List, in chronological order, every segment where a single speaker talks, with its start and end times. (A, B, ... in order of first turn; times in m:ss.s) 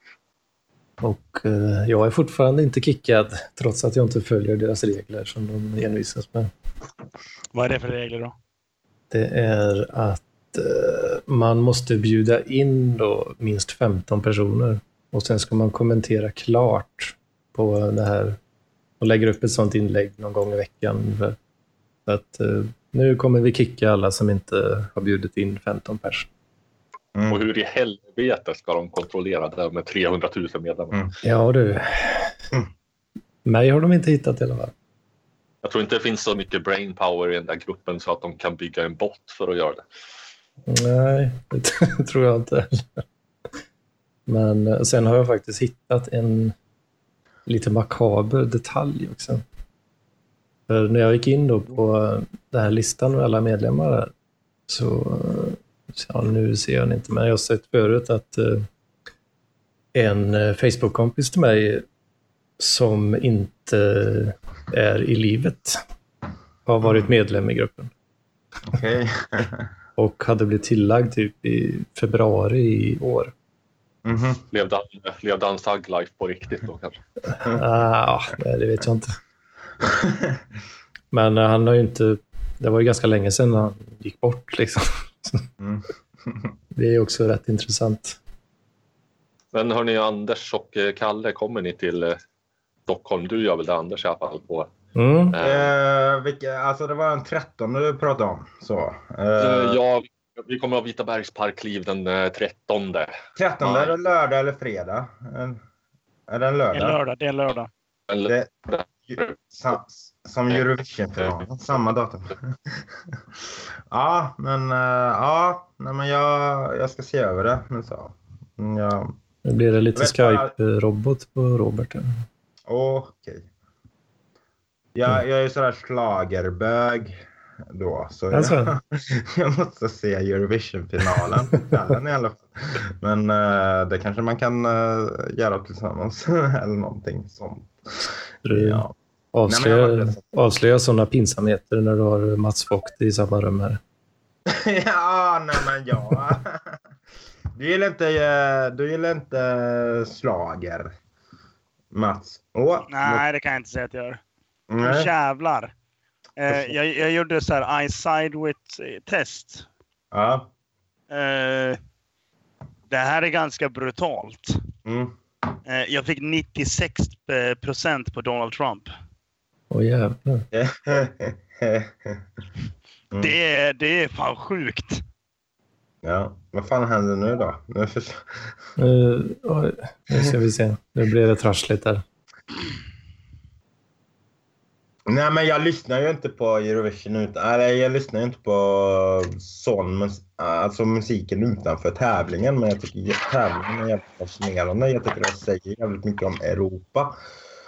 0:01.0-0:06.5 A
0:07.5-0:08.3 B
0:09.1-0:18.4 A
0:19.0-0:21.4 A
0:22.0-0:26.3 A
0:27.1-0:27.4 C
0:27.3-0:31.0 D
0:31.2-0:32.4 A
0:33.4-0:34.7 A
0:35.6-0:39.8 D
0:40.6-0:43.0 A
0:44.3-0:46.5 A
0:47.4-0:49.4 A
0:50.7-0:54.1 A
0:54.7-0:58.7 A
0:59.9-1:01.8 A
1:02.6-1:05.8 A
1:06.6-1:07.9 A
1:06.8-1:07.1 C
1:08.7-1:09.7 C
1:10.0-1:13.3 A
1:14.0-1:14.4 C
1:14.5-1:17.0 D
1:17.3-1:19.2 A
1:21.1-1:25.4 A
1:25.6-1:26.5 C
1:26.7-1:28.2 A
1:29.5-1:32.2 D
1:32.9-1:34.7 D
1:34.9-1:35.4 A
1:35.3-1:35.7 D
1:35.4-1:39.8 C
1:39.4-1:43.9 D
1:43.4-1:45.6 C
1:46.3-1:47.0 C
1:46.7-1:47.7 B
1:48.2-1:52.8 C
1:53.9-1:59.2 C
1:59.4-2:02.2 A
1:59.9-2:00.5 C
2:02.7-2:03.5 C
2:04.9-2:18.9 C
2:08.3-2:08.7 A
2:18.4-2:23.8 A
2:19.5-2:20.2 C
2:24.5-2:26.8 C
2:27.6-2:30.9 C
2:31.9-2:33.2 C
2:32.9-2:34.2 B
2:34.7-2:35.1 C
2:34.8-2:35.7 B
2:36.4-2:39.6 B
2:40.1-2:40.5 C
2:41.1-2:41.8 B
2:42.9-2:44.6 B
2:44.8-2:45.2 C
2:45.6-2:48.9 B
2:49.7-2:50.4 A
2:50.5-2:52.2 C
2:53.2-2:55.0 B
2:56.0-2:58.5 C
2:58.8-3:02.0 A
3:05.1-3:17.1 C